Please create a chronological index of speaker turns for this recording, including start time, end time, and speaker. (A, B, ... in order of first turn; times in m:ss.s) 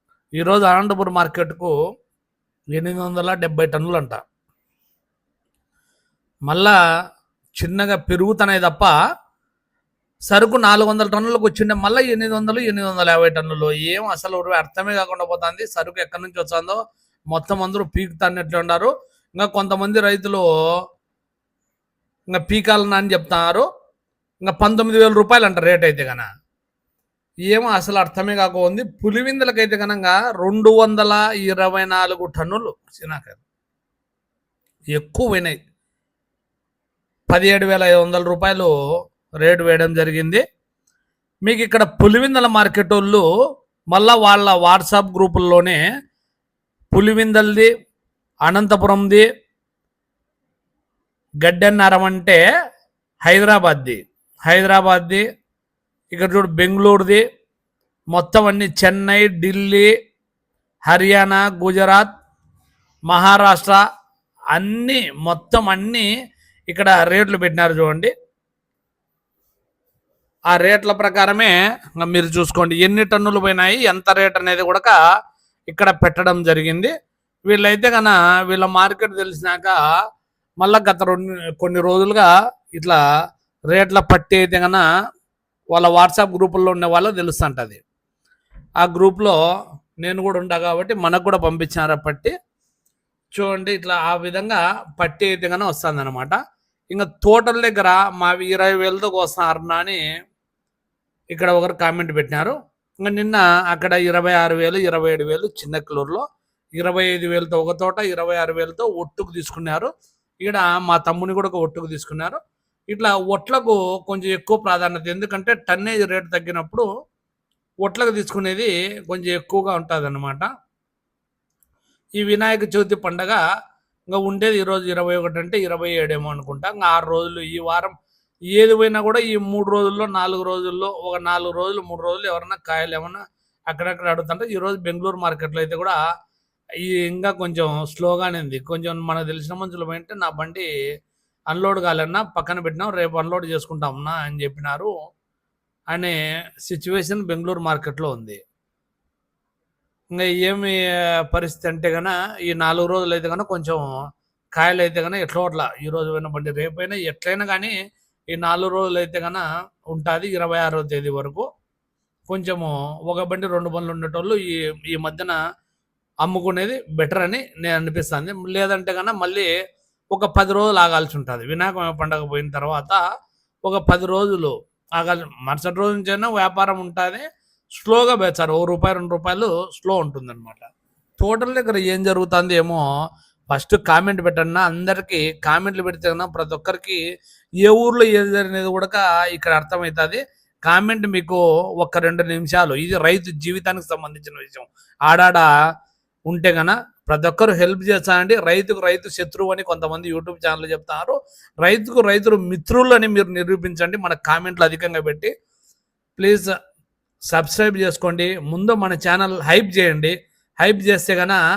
0:00.4-0:01.7 A
0:02.7-0:04.2 A
0:06.5-0:06.8 A
0:07.6-0:08.9 A
0:10.3-0:16.8 A
0:17.3-0:20.4 A
0:22.3-0:23.7 A
0:24.4-0:26.3 A
0:27.5-0:33.4 A
0:34.9-0:35.6 A
0:37.3-0:38.7 A
0:39.4-0:40.4 A
0:41.5-0:43.2 A
0:43.9-0:45.8 A
0:46.9-0:47.7 A
0:48.5-0:49.2 A
0:51.4-0:52.4 A
0:53.2-0:55.2 A
0:56.1-0:57.2 A
0:58.1-0:59.9 A
1:00.9-1:02.1 A
1:03.1-1:03.8 A
1:04.5-1:06.1 A
1:06.7-1:08.1 A
1:10.5-1:15.0 A
1:15.7-1:16.9 A
1:17.5-1:19.8 A
1:20.6-1:23.0 A
1:23.7-1:24.8 A
1:25.7-1:27.8 A
1:28.8-1:29.4 A
1:30.0-1:32.3 A
1:33.4-1:36.4 A
1:36.9-1:40.0 A
1:41.3-1:46.2 A
1:46.8-1:49.9 A
1:50.4-1:52.4 A
1:52.9-1:56.9 A
1:57.8-2:00.5 A
2:02.2-2:03.4 A
2:04.1-2:08.0 A
2:08.5-2:16.0 A
2:16.8-2:20.7 A
2:21.5-2:24.9 A
2:25.9-2:28.4 A
2:30.1-2:33.8 A
2:34.6-2:37.7 A
2:38.3-2:41.5 A
2:42.3-2:45.4 A
2:46.2-2:49.5 A
2:50.1-2:53.0 A
2:53.6-2:57.3 A
2:57.8-3:02.8 A
3:03.5-3:07.0 A
3:07.6-3:15.5 A
3:16.3-3:25.3 A
3:26.2-3:26.5 A
3:27.3-3:31.4 A